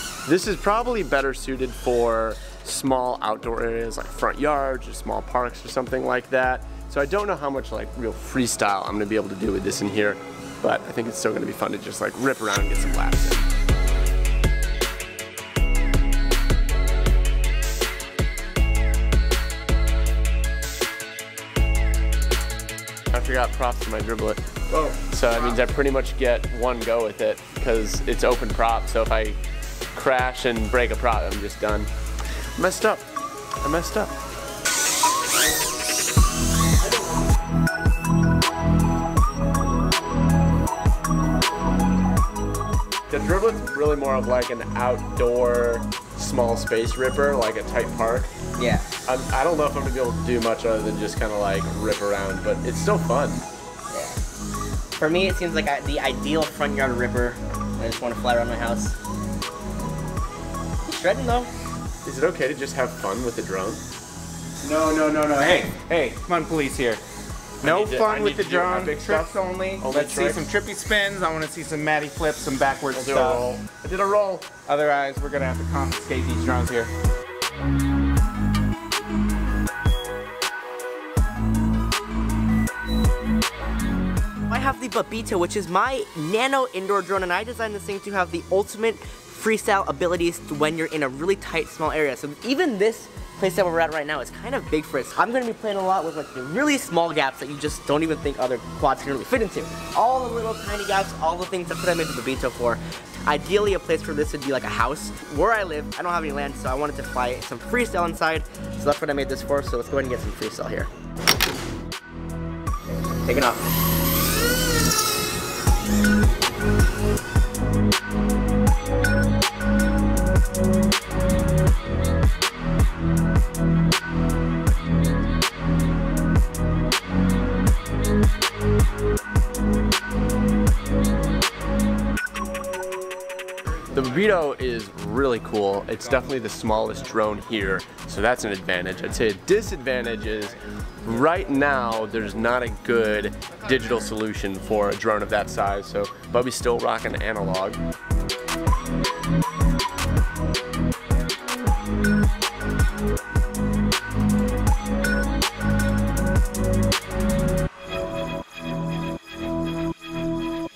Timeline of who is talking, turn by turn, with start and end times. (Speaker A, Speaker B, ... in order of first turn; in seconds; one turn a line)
Speaker A: 0.2-13.5
Speaker A: 23.1-29.4
Speaker A: 29.9-31.9
Speaker A: 32.6-33.1
Speaker A: 33.6-34.2
Speaker A: 43.1-48.3
Speaker B: 48.6-48.9
Speaker A: 49.1-53.5
Speaker B: 53.9-54.2
Speaker B: 55.0-59.0
Speaker B: 60.9-61.5
Speaker A: 62.0-63.8
Speaker C: 64.6-67.0
Speaker A: 67.6-70.5
Speaker C: 67.6-73.4
Speaker A: 72.9-74.5
Speaker C: 74.7-76.9
Speaker B: 84.5-110.9
Speaker B: 113.1-113.7
Speaker A: 133.9-147.8